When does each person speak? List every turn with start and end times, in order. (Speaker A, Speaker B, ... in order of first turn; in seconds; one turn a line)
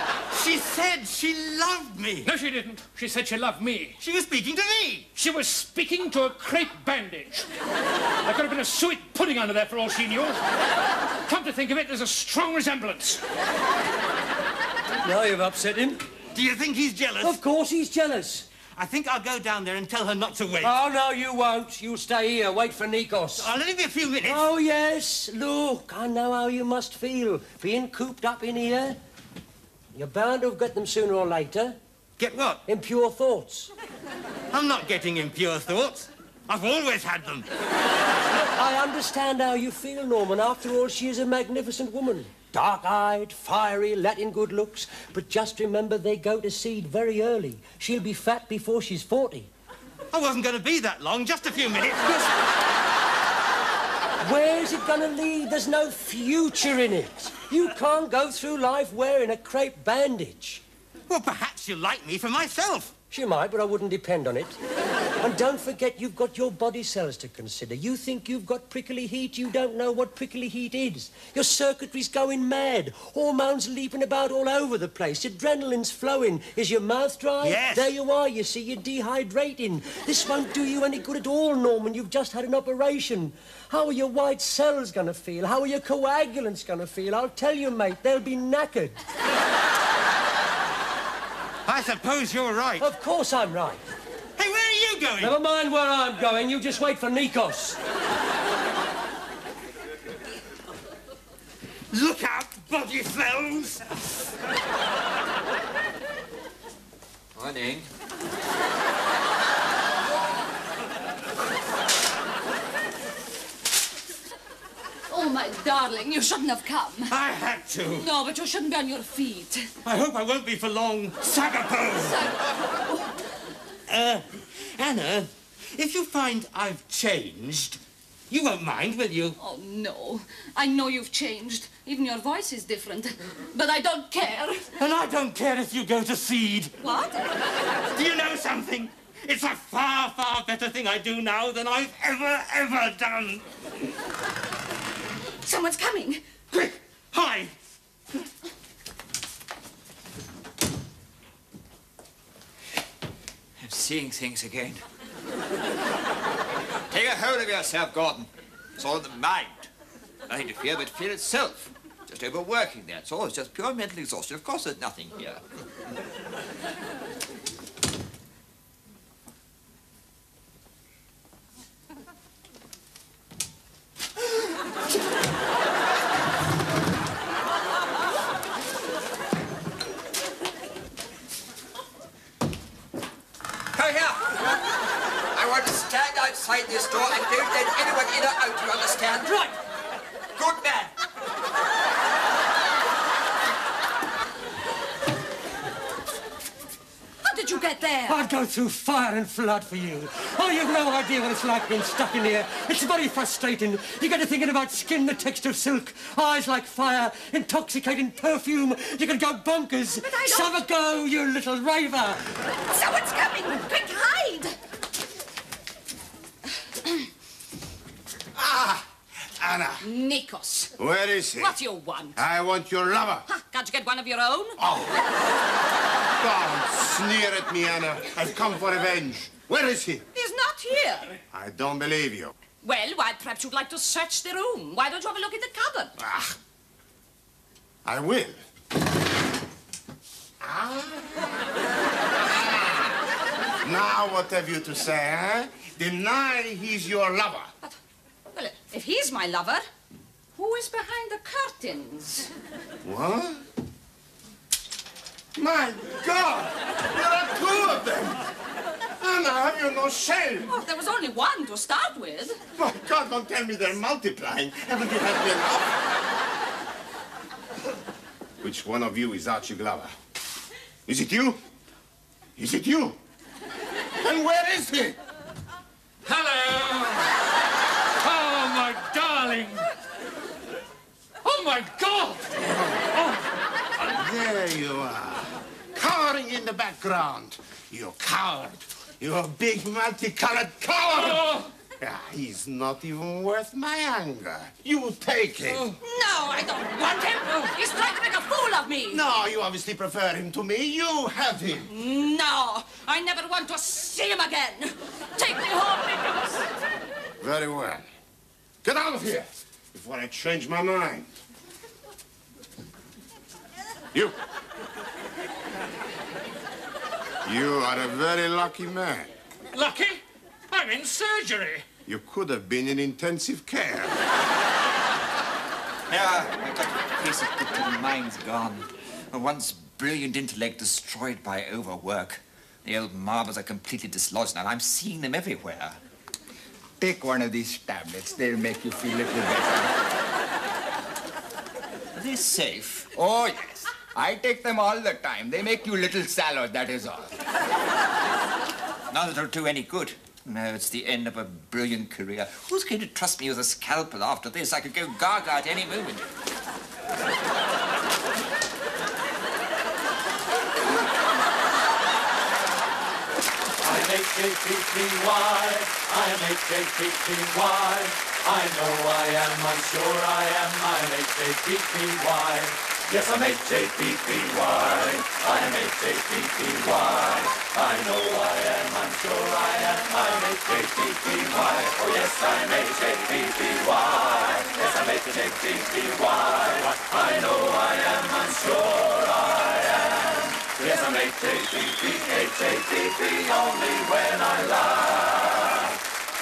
Speaker A: 0.3-2.3
Speaker B: 2.2-4.0
Speaker A: 4.0-5.1
Speaker B: 5.1-7.5
Speaker B: 8.2-10.4
Speaker B: 11.2-13.2
Speaker C: 15.0-16.0
Speaker A: 16.3-17.4
Speaker C: 17.2-18.5
Speaker A: 18.7-20.7
Speaker C: 20.6-23.5
Speaker A: 23.4-24.4
Speaker C: 24.2-29.0
Speaker C: 29.9-31.8
Speaker A: 32.2-32.6
Speaker C: 32.6-33.7
Speaker A: 34.5-37.5
Speaker C: 38.3-49.5
Speaker A: 50.1-52.3
Speaker C: 54.2-60.6
Speaker A: 61.1-62.9
Speaker C: 63.1-64.6
Speaker C: 65.2-89.0
Speaker A: 77.4-77.9
Speaker A: 91.7-92.9
Speaker C: 92.8-93.8
Speaker A: 94.4-95.4
Speaker C: 95.2-97.8
Speaker A: 101.9-103.8
Speaker D: 107.3-107.9
Speaker E: 115.1-117.1
Speaker A: 117.1-118.1
Speaker E: 117.9-119.7
Speaker A: 119.8-122.3
Speaker A: 123.9-129.4
Speaker E: 129.4-134.7
Speaker A: 134.8-136.7
Speaker E: 136.8-137.4
Speaker A: 137.9-143.4
Speaker E: 145.4-146.3
Speaker A: 146.5-147.5
Speaker D: 153.6-154.8
Speaker D: 156.9-159.7
Speaker D: 160.3-165.4
Speaker D: 183.7-184.6
Speaker D: 185.3-189.4
Speaker C: 189.2-189.5
Speaker D: 190.3-190.9
Speaker E: 197.2-198.2
Speaker C: 198.1-212.2
Speaker E: 210.0-210.5
Speaker E: 212.7-214.6
Speaker F: 218.3-219.8
Speaker E: 219.8-220.7
Speaker F: 220.8-221.5
Speaker E: 221.4-222.2
Speaker F: 222.2-223.2
Speaker E: 223.3-224.6
Speaker F: 224.6-225.0
Speaker F: 226.2-230.1
Speaker E: 230.1-231.2
Speaker F: 231.3-232.3
Speaker E: 232.6-235.9
Speaker F: 236.0-236.4
Speaker F: 237.8-238.4
Speaker F: 240.4-241.5
Speaker F: 242.2-242.9
Speaker F: 243.6-247.5
Speaker E: 248.3-249.6
Speaker E: 250.3-252.3
Speaker F: 252.8-253.4
Speaker F: 255.3-258.3
Speaker F: 259.0-260.5
Speaker E: 260.5-262.4
Speaker F: 262.6-265.8
Speaker F: 268.4-269.9
Speaker F: 270.9-271.4
Speaker F: 272.4-273.0
Speaker F: 273.9-275.0
Speaker B: 276.0-277.2
Speaker B: 278.0-279.7
Speaker B: 281.2-283.3
Speaker F: 282.5-282.9
Speaker F: 283.9-295.7
Speaker B: 290.9-291.5
Speaker B: 295.5-295.8
Speaker E: 295.8-299.0
Speaker B: 297.3-297.5
Speaker F: 298.9-301.7
Speaker E: 301.7-306.5
Speaker F: 307.2-307.9
Speaker F: 308.6-311.1
Speaker F: 317.2-319.1
Speaker B: 319.5-321.6
Speaker F: 321.9-323.9
Speaker D: 325.9-335.8
Speaker G: 336.8-339.7
Speaker D: 341.9-342.9
Speaker G: 342.9-347.1
Speaker D: 348.9-356.1
Speaker H: 363.6-395.6